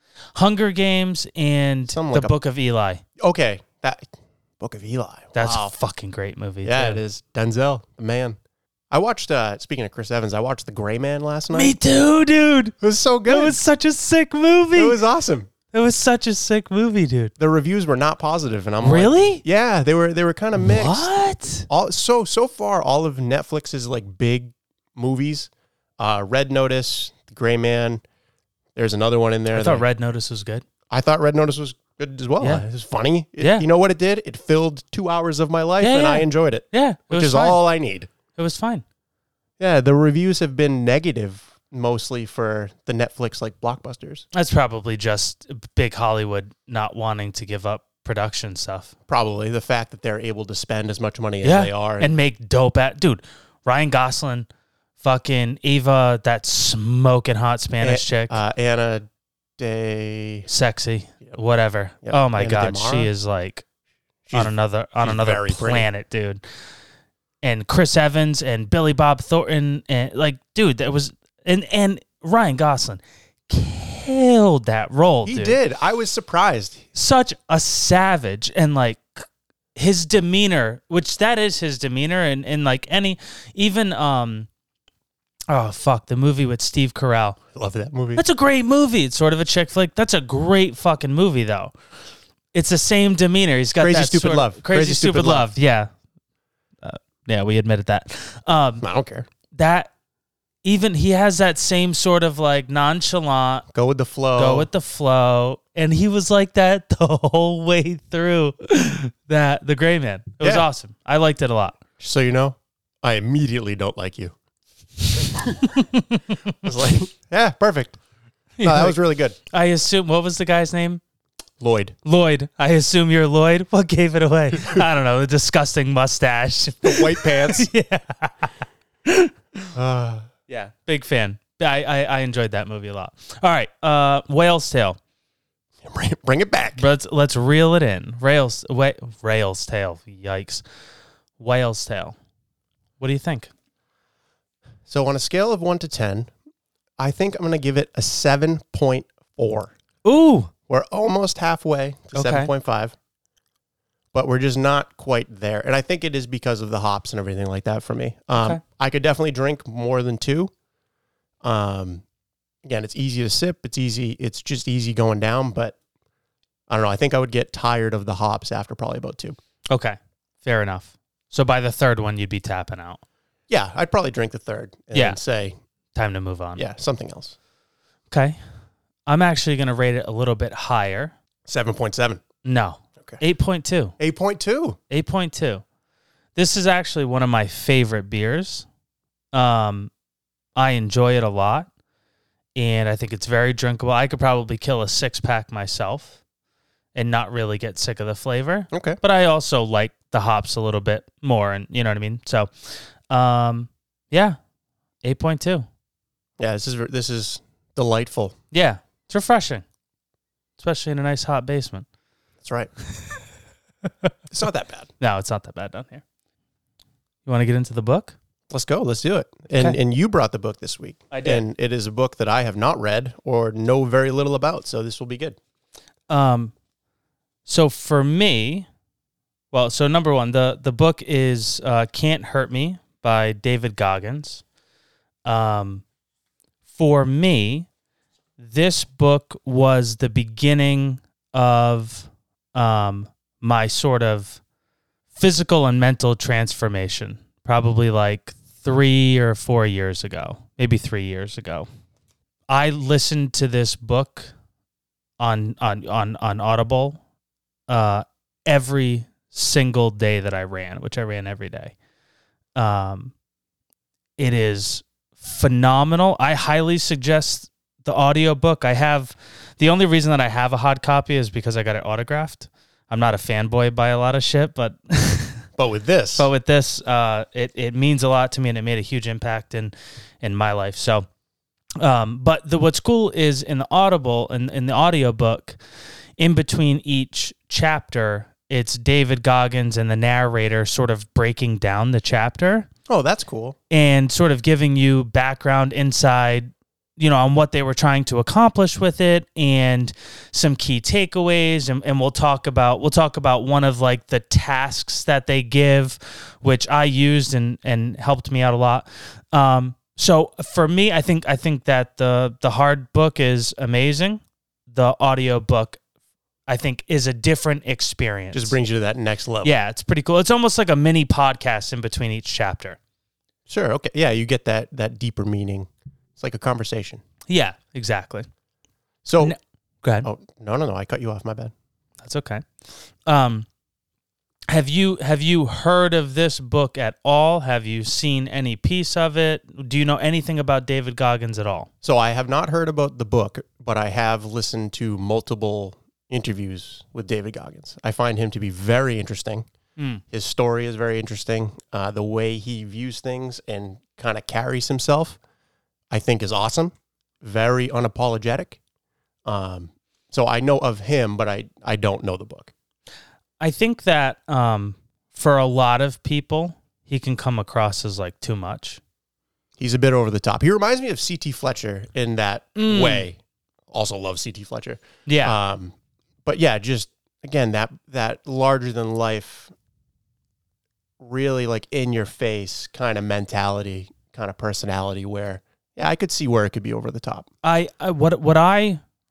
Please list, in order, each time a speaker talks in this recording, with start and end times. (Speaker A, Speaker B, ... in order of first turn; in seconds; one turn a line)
Speaker A: 0.3-3.0
Speaker B: 1.9-2.3
Speaker B: 3.2-4.1
Speaker B: 4.6-5.7
Speaker A: 5.3-7.0
Speaker B: 6.6-8.4
Speaker B: 8.9-11.8
Speaker A: 11.5-15.0
Speaker B: 12.8-13.6
Speaker B: 14.8-15.5
Speaker A: 15.7-17.3
Speaker B: 17.4-21.1
Speaker A: 18.8-19.4
Speaker A: 20.6-21.7
Speaker B: 21.7-28.0
Speaker B: 28.8-29.9
Speaker A: 29.5-30.6
Speaker B: 30.9-38.1
Speaker A: 32.4-32.6
Speaker A: 33.4-33.7
Speaker A: 35.8-37.6
Speaker A: 38.4-38.8
Speaker B: 39.6-44.2
Speaker A: 44.3-48.9
Speaker B: 49.1-52.1
Speaker A: 51.4-54.5
Speaker A: 55.0-58.4
Speaker B: 57.8-59.1
Speaker B: 59.6-60.5
Speaker A: 60.5-63.6
Speaker B: 62.0-63.1
Speaker B: 64.2-65.9
Speaker A: 64.3-66.4
Speaker A: 67.4-75.6
Speaker B: 75.2-76.8
Speaker A: 77.0-84.5
Speaker A: 85.5-87.4
Speaker B: 87.5-88.2
Speaker A: 88.2-91.7
Speaker A: 92.5-95.9
Speaker B: 93.8-95.5
Speaker A: 96.8-98.8
Speaker B: 98.8-99.3
Speaker A: 99.5-99.9
Speaker A: 100.6-103.7
Speaker B: 103.7-104.7
Speaker A: 104.4-111.8
Speaker B: 110.4-110.7
Speaker B: 112.0-114.3
Speaker B: 115.1-115.8
Speaker A: 115.7-116.6
Speaker B: 116.6-118.0
Speaker A: 118.6-119.0
Speaker B: 118.6-119.4
Speaker A: 119.5-121.0
Speaker B: 121.6-122.0
Speaker A: 122.0-128.5
Speaker B: 126.8-127.7
Speaker A: 129.1-129.7
Speaker B: 129.8-130.2
Speaker A: 130.5-135.0
Speaker B: 135.8-136.9
Speaker A: 136.8-140.6
Speaker A: 141.4-142.2
Speaker A: 143.0-143.5
Speaker B: 144.9-146.3
Speaker B: 147.0-149.7
Speaker A: 150.1-150.5
Speaker B: 150.7-152.9
Speaker A: 152.1-152.5
Speaker B: 154.1-160.5
Speaker A: 158.4-158.6
Speaker B: 161.4-162.0
Speaker B: 162.7-165.8
Speaker B: 166.7-169.4
Speaker A: 169.7-173.0
Speaker B: 173.5-175.6
Speaker A: 174.9-175.2
Speaker A: 175.9-176.6
Speaker B: 176.6-177.3
Speaker A: 178.1-178.4
Speaker A: 179.1-181.2
Speaker B: 181.5-182.2
Speaker A: 182.4-183.9
Speaker B: 184.0-184.8
Speaker A: 184.9-185.6
Speaker A: 186.4-188.7
Speaker A: 189.3-189.9
Speaker A: 190.6-191.7
Speaker A: 192.6-196.2
Speaker A: 196.9-204.4
Speaker B: 198.7-199.0
Speaker A: 205.0-205.7
Speaker B: 206.4-208.4
Speaker A: 208.5-209.6
Speaker A: 210.6-211.9
Speaker B: 212.4-212.7
Speaker B: 214.3-214.9
Speaker A: 215.0-216.0
Speaker A: 217.2-218.2
Speaker B: 218.5-225.4
Speaker A: 221.1-221.4
Speaker A: 226.1-226.5
Speaker A: 227.5-228.7
Speaker A: 229.5-234.4
Speaker A: 235.2-235.8
Speaker A: 236.7-237.7
Speaker A: 238.4-244.4
Speaker A: 245.1-251.7
Speaker A: 252.5-254.3
Speaker A: 255.2-257.0
Speaker A: 257.7-261.8
Speaker A: 262.6-263.1
Speaker A: 264.2-275.5
Speaker B: 275.6-276.3
Speaker A: 276.2-281.1
Speaker A: 281.8-285.6
Speaker A: 286.2-292.7
Speaker B: 292.9-293.6
Speaker A: 293.7-315.8
Speaker A: 316.5-318.6
Speaker B: 318.3-319.5
Speaker A: 319.4-322.8
Speaker B: 323.5-327.0
Speaker A: 327.3-328.3
Speaker B: 329.1-329.4
Speaker A: 329.2-330.1
Speaker B: 330.0-331.5
Speaker A: 332.0-332.5
Speaker A: 333.1-333.5
Speaker A: 334.5-341.7
Speaker B: 341.8-349.5
Speaker A: 349.8-350.0
Speaker B: 350.1-355.2
Speaker B: 355.9-358.6
Speaker B: 359.2-362.5
Speaker A: 363.4-368.8
Speaker B: 369.6-373.2
Speaker A: 372.6-373.1
Speaker B: 373.7-375.7
Speaker A: 375.1-375.4
Speaker B: 376.2-379.5
Speaker B: 381.0-387.3
Speaker A: 387.4-388.8